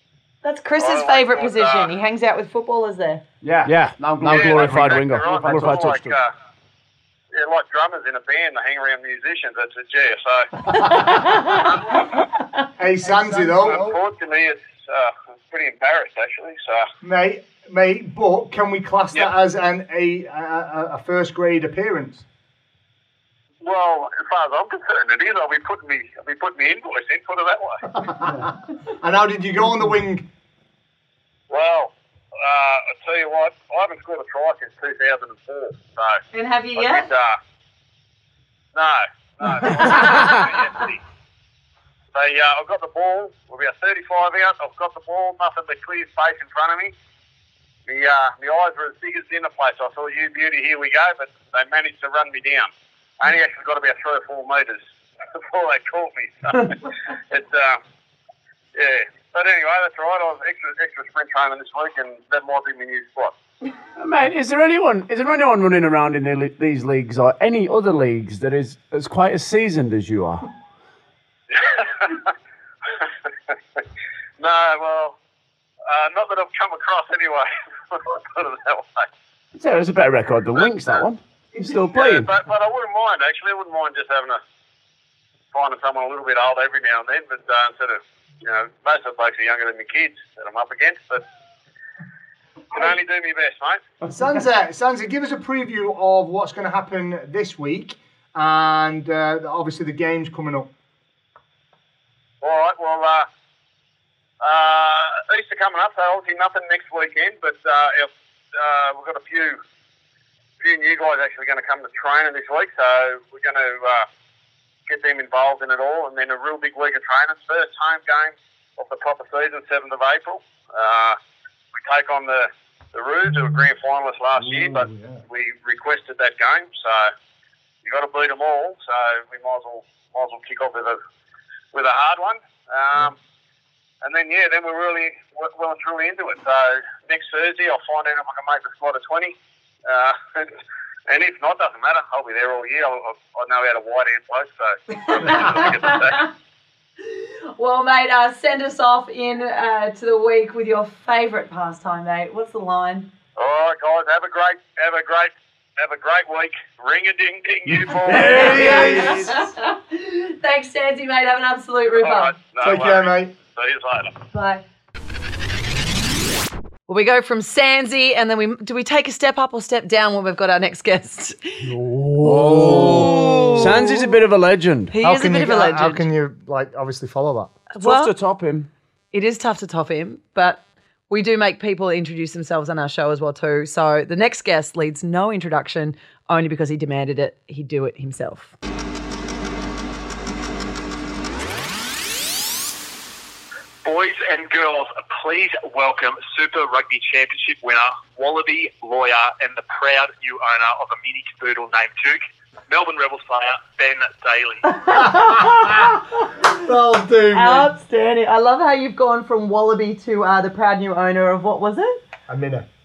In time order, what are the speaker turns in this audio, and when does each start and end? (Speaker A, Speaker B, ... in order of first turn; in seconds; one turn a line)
Speaker A: 0.4-3.2
Speaker B: 0.8-1.9
Speaker C: 3.6-6.2
Speaker D: 4.2-5.4
Speaker B: 4.2-6.3
Speaker B: 7.3-10.5
Speaker A: 10.7-12.7
Speaker B: 11.6-12.0
Speaker D: 12.8-14.0
Speaker B: 13.2-16.9
Speaker D: 17.0-22.2
Speaker B: 23.6-27.9
Speaker D: 27.9-30.3
Speaker B: 31.5-36.2
Speaker A: 36.3-37.1
Speaker B: 36.8-37.4
Speaker B: 38.7-41.0
Speaker A: 39.8-40.4
Speaker B: 42.1-46.9
Speaker B: 47.9-54.8
Speaker B: 55.3-57.8
Speaker B: 58.8-63.4
Speaker C: 64.0-70.5
Speaker B: 71.5-72.3
Speaker B: 74.4-75.2
Speaker B: 75.9-79.1
Speaker C: 79.5-82.3
Speaker B: 81.9-84.4
Speaker B: 85.5-91.2
Speaker B: 92.7-93.8
Speaker D: 94.1-100.7
Speaker B: 102.4-103.3
Speaker B: 104.4-109.6
Speaker B: 110.6-114.1
Speaker B: 114.9-121.2
Speaker B: 121.8-127.1
Speaker D: 124.6-125.2
Speaker B: 127.8-131.0
Speaker B: 131.7-133.2
Speaker B: 134.0-146.3
Speaker A: 145.1-146.2
Speaker A: 147.1-153.1
Speaker B: 153.4-158.8
Speaker C: 158.1-159.3
Speaker D: 158.1-159.4
Speaker A: 158.1-162.3
Speaker B: 162.0-164.1
Speaker D: 162.6-163.3
Speaker A: 164.3-164.6
Speaker A: 166.9-171.7
Speaker C: 171.6-174.9
Speaker D: 172.2-174.0
Speaker A: 172.7-173.9
Speaker A: 174.9-176.1
Speaker D: 175.0-177.6
Speaker A: 177.7-178.1
Speaker C: 177.8-178.7
Speaker A: 179.1-188.5
Speaker E: 193.8-204.9
Speaker A: 204.7-206.4
Speaker D: 204.9-206.0
Speaker D: 206.5-207.7
Speaker A: 207.3-212.0
Speaker D: 212.3-212.7